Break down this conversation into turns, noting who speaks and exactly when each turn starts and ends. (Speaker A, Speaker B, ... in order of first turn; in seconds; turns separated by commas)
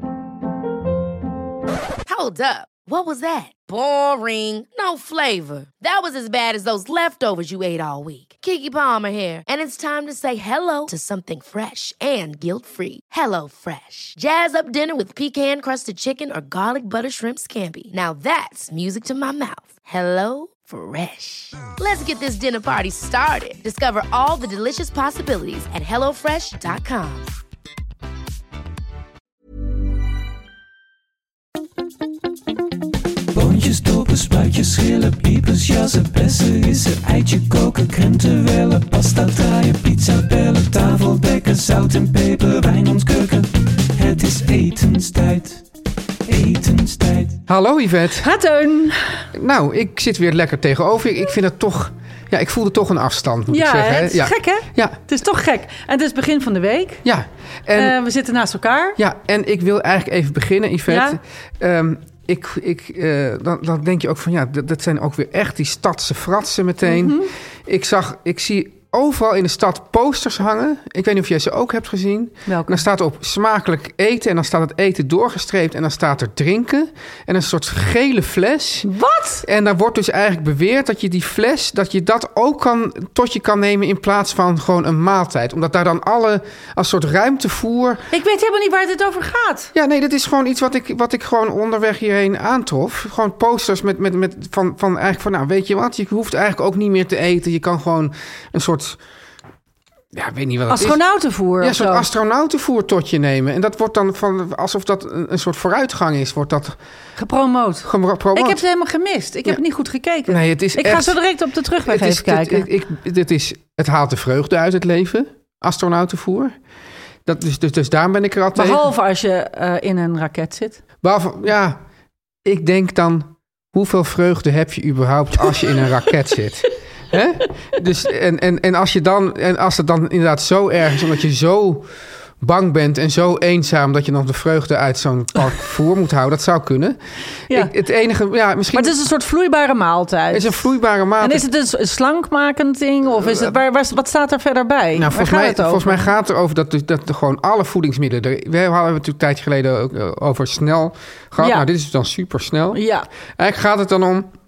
Speaker A: 2.0-27.3, Speaker B: 33.3-45.6, Speaker B: 46.3-47.5, Speaker C: 47.5-48.3, Speaker D: 48.2-49.3, Speaker C: 49.3-55.0, Speaker D: 53.5-57.0, Speaker C: 57.0-58.0, Speaker D: 57.8-59.0, Speaker C: 59.0-78.9, Speaker D: 60.9-61.2, Speaker D: 66.8-67.3, Speaker D: 72.5-72.8, Speaker D: 78.8-79.5, Speaker C: 79.4-88.1, Speaker D: 88.1-89.7, Speaker C: 89.8-99.0, Speaker C: 100.1-101.0, Speaker D: 100.7-102.1, Speaker C: 101.6-106.8, Speaker D: 107.2-112.7, Speaker C: 107.9-108.6, Speaker C: 110.3-111.2, Speaker C: 111.8-116.5, Speaker C: 117.3-118.9, Speaker D: 118.6-120.8, Speaker C: 121.0-121.8, Speaker C: 122.5-131.9, Speaker C: 132.4-137.0, Speaker C: 137.5-139.0, Speaker D: 138.7-146.1, Speaker C: 140.3-141.5, Speaker C: 143.2-143.6, Speaker C: 144.9-152.8, Speaker D: 151.4-151.7, Speaker D: 152.7-153.1, Speaker C: 153.4-154.3